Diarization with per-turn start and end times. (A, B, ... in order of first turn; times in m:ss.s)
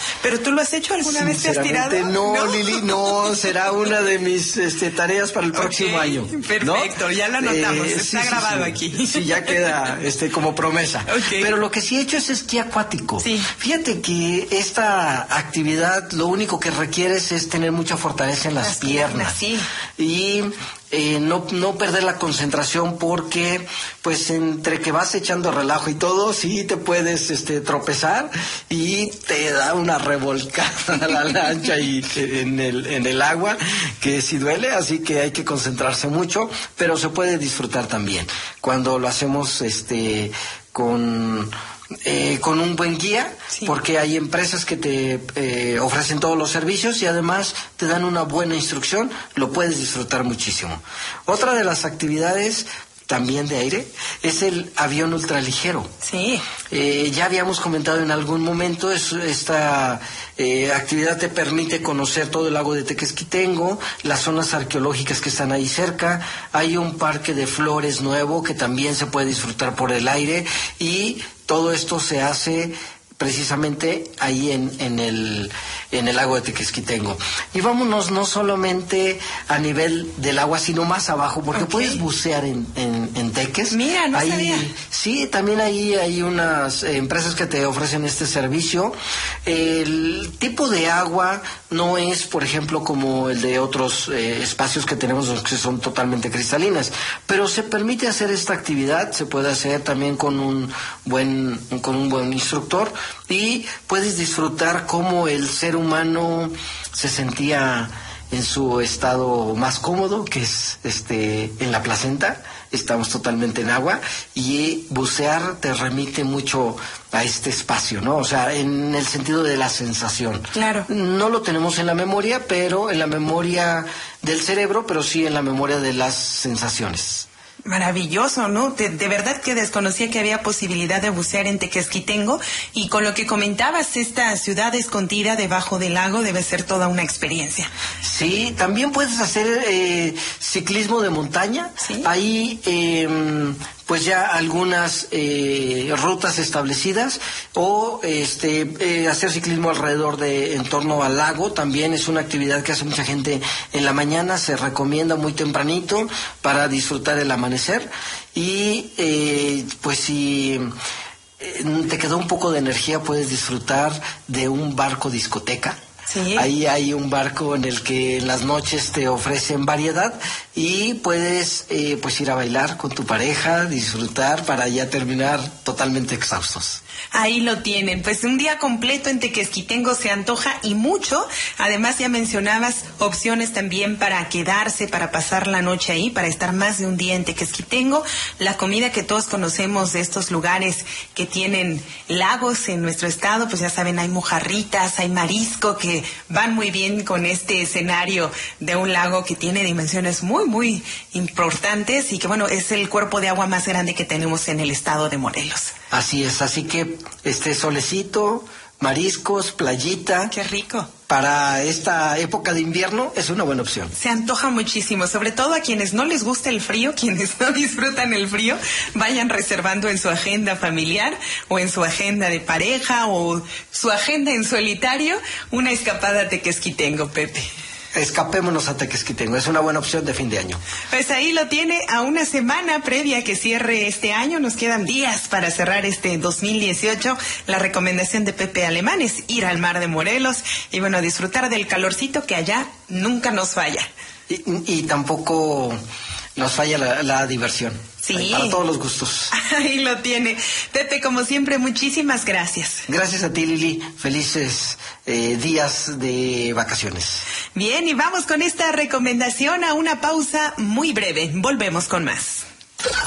0:00.2-0:03.6 A
0:01.0-0:19.4 B
0:05.5-0:09.9 A
0:11.1-0:11.5 A
0:13.2-0:13.5 A
0:18.6-0:19.7 A
0:20.0-0:41.5 B
0:42.0-0:55.9 B
0:56.0-0:56.4 A
0:56.7-2:07.3 B
1:21.5-1:22.0 A
1:23.7-1:24.7 A
2:00.5-2:00.9 A
2:07.6-2:17.7 A
2:18.0-2:40.7 B
2:21.8-2:22.1 A
2:41.4-2:45.8 B
2:46.1-2:46.5 A
2:46.4-2:56.8 B
2:57.1-3:25.8 A
3:25.9-3:30.3 B
3:30.3-3:30.9 A
3:31.1-3:33.9 B
3:33.9-3:47.5 A
3:47.9-3:50.6 B
3:50.9-4:03.9 A
4:04.3-4:05.8 B
4:06.4-4:09.3 B
4:08.0-4:08.6 A
4:09.3-4:12.8 A
4:12.9-4:17.2 B
4:17.5-4:22.4 A